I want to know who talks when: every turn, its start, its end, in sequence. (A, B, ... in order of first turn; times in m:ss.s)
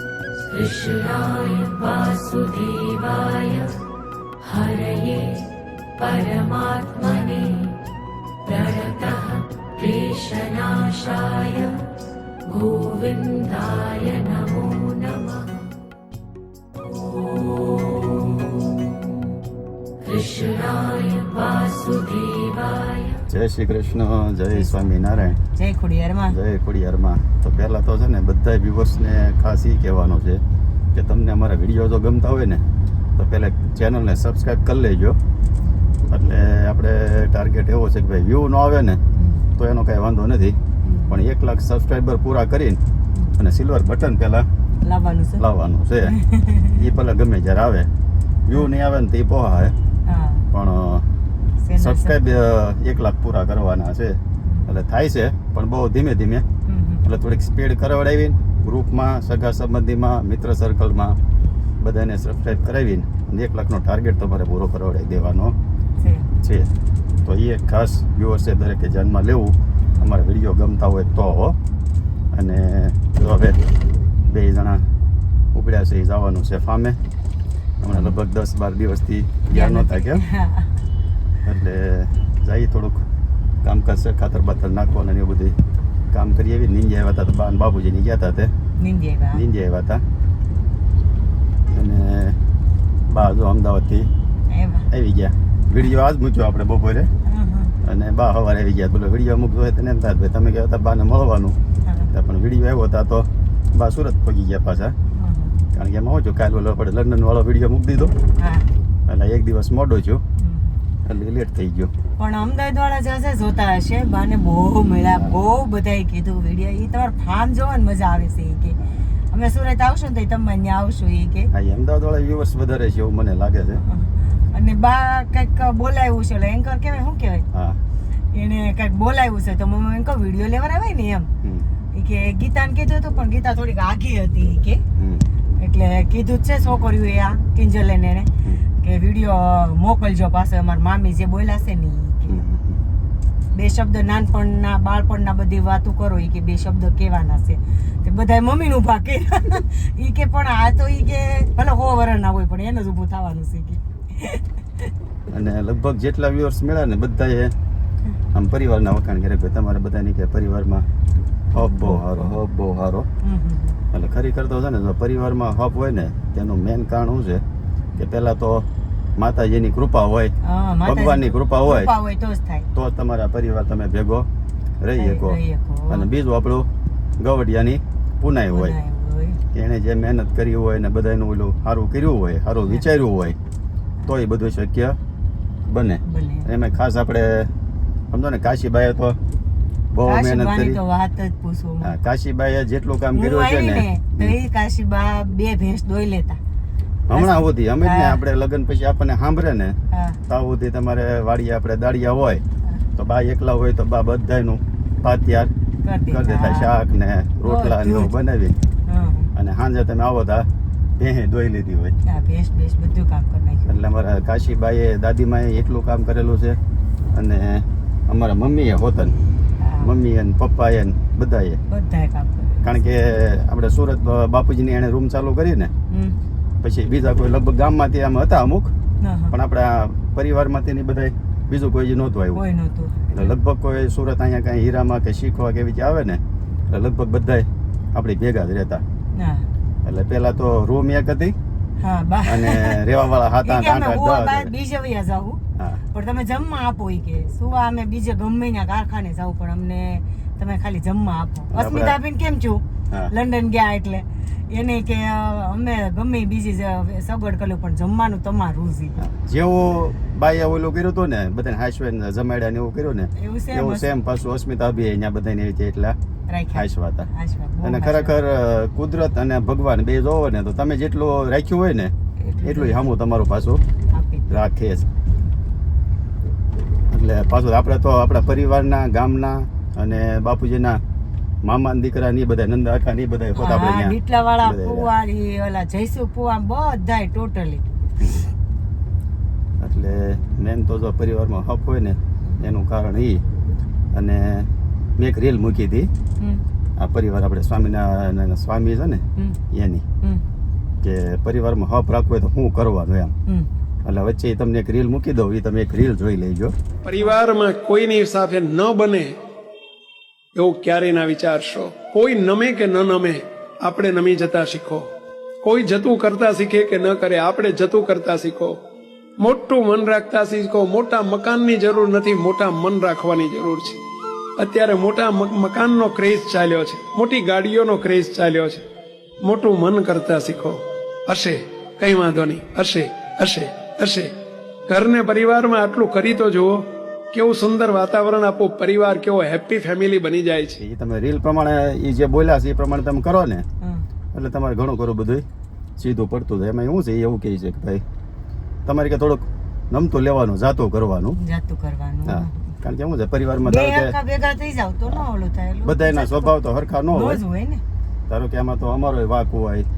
0:00.4-0:03.8 A
0:04.4-0:05.4 A
0:06.0-0:07.8 A
0:08.5-0:11.8 A
0:12.5-0:15.6 A
0:16.8-0:19.0 A
0:20.0-0:23.2 A
0:23.3-0:25.4 B
0:24.5-0:26.4 C
0:26.3-0:30.4 B
0:30.9-0:32.6 B
0:33.2-0:35.2 B
0:35.6-0:36.0 C
0:36.1-0:39.0 B
0:39.2-0:39.5 C
0:39.6-0:40.6 B
0:40.8-0:41.2 C
0:41.1-0:42.8 B
0:43.4-0:44.5 B
0:44.8-0:45.4 C
0:45.4-0:46.1 B
0:46.0-0:46.8 C
0:46.7-0:47.9 B
0:48.5-0:49.7 B
0:50.1-0:50.4 C
0:50.5-0:51.0 B
0:51.6-0:52.2 C
0:51.8-0:56.4 B
0:54.5-0:54.8 C
0:56.6-0:57.1 C
0:57.0-1:01.2 B
1:01.8-1:05.6 B
1:06.0-1:06.3 C
1:06.4-1:06.7 B
1:07.2-1:11.6 B
1:12.3-1:13.6 B
1:14.2-1:14.8 B
1:15.5-1:17.0 B
1:17.8-1:20.2 B
1:19.5-1:20.7 C
1:21.4-1:23.0 B
1:23.6-1:25.6 B
1:26.1-1:28.5 B
1:28.8-1:29.4 C
1:29.3-1:30.0 B
1:31.7-1:32.4 B
1:33.1-1:34.1 B
1:34.5-1:34.9 C
1:34.9-1:37.1 B
1:37.2-1:37.8 C
1:37.8-1:41.6 B
1:41.9-1:42.1 C
1:42.1-1:45.0 B
1:45.1-1:45.6 C
1:45.7-1:48.1 B
1:48.4-1:48.7 C
1:49.1-1:50.2 B
1:50.4-1:50.8 C
1:51.0-1:51.9 B
1:52.2-1:58.8 C
1:59.3-2:01.5 C
2:01.5-2:03.8 B
2:03.8-2:07.5 C
2:07.5-2:07.8 B
2:08.3-2:11.3 C
2:12.0-2:14.8 C
2:15.0-2:15.2 B
2:15.6-2:22.4 C
2:22.3-2:22.8 B
2:23.5-2:34.9 C
2:35.3-2:37.5 B
2:38.3-2:40.9 B
2:41.5-2:43.1 B
2:41.6-2:42.4 C
2:43.2-2:43.8 C
2:43.9-2:47.4 B
2:48.0-2:48.6 B
2:49.2-2:50.3 B
2:50.4-2:52.7 C
2:50.8-2:51.9 B
2:52.7-2:54.3 B
2:54.8-2:58.8 B
2:55.0-2:56.1 C
2:58.5-2:59.4 C
2:59.5-3:03.4 B
3:04.1-3:05.0 B
3:05.6-3:07.5 B
3:06.0-3:06.5 C
3:08.1-3:09.2 B
3:09.9-3:10.8 B
3:10.0-3:12.0 C
3:11.8-3:14.4 B
3:13.1-3:16.4 C
3:17.1-3:19.8 B
3:17.1-3:18.2 C
3:19.9-3:20.2 C
3:20.3-3:22.4 B
3:23.0-3:25.5 B
3:25.8-3:26.7 C
3:26.1-3:28.6 B
3:27.4-3:28.1 C
3:28.9-3:29.3 C
3:29.3-3:30.5 B
3:31.0-3:32.0 B
3:32.1-3:33.7 C
3:33.7-3:36.6 B
3:37.1-3:39.2 B
3:39.6-3:39.9 C
3:39.8-3:41.6 B
3:41.7-3:42.8 C
3:42.6-3:45.7 B
3:45.9-3:46.2 C
3:46.6-3:48.7 B
3:49.0-3:49.3 C
3:49.3-3:52.4 B
3:52.3-3:53.3 C
3:53.1-3:58.8 B
3:59.1-3:59.5 C
3:59.8-4:01.4 B
4:01.8-4:02.8 C
4:02.2-4:04.5 B
4:03.4-4:05.4 C
4:05.6-4:05.8 B
4:05.9-4:19.0 C
4:11.5-4:12.0 B
4:19.0-4:26.0 B
4:23.2-4:23.9 C
4:26.3-4:28.2 C
4:26.5-4:27.1 B
4:27.6-4:33.6 B
4:32.2-4:32.8 C
4:33.9-4:34.4 C
4:34.3-4:34.9 B
4:36.9-4:40.8 B
4:41.4-4:44.9 B
4:43.4-4:47.6 C
4:48.0-4:48.3 B
4:49.6-4:53.2 B
4:53.9-4:55.9 B
4:56.8-4:59.8 B
5:00.8-5:03.1 B
5:03.8-5:06.5 B
5:06.8-5:09.2 D
5:10.4-5:14.9 D
5:15.4-5:18.6 D
5:19.2-5:23.8 D
5:24.4-5:28.7 D
5:29.2-5:34.1 D
5:34.7-5:40.6 D
5:40.6-5:43.4 B
5:44.1-5:45.2 B
5:45.8-5:47.8 B
5:48.7-5:51.2 B
5:51.2-5:52.6 C
5:52.1-5:53.9 B
5:53.4-5:56.4 C
5:55.6-5:57.2 B
5:56.9-5:57.6 C
5:58.1-5:59.7 B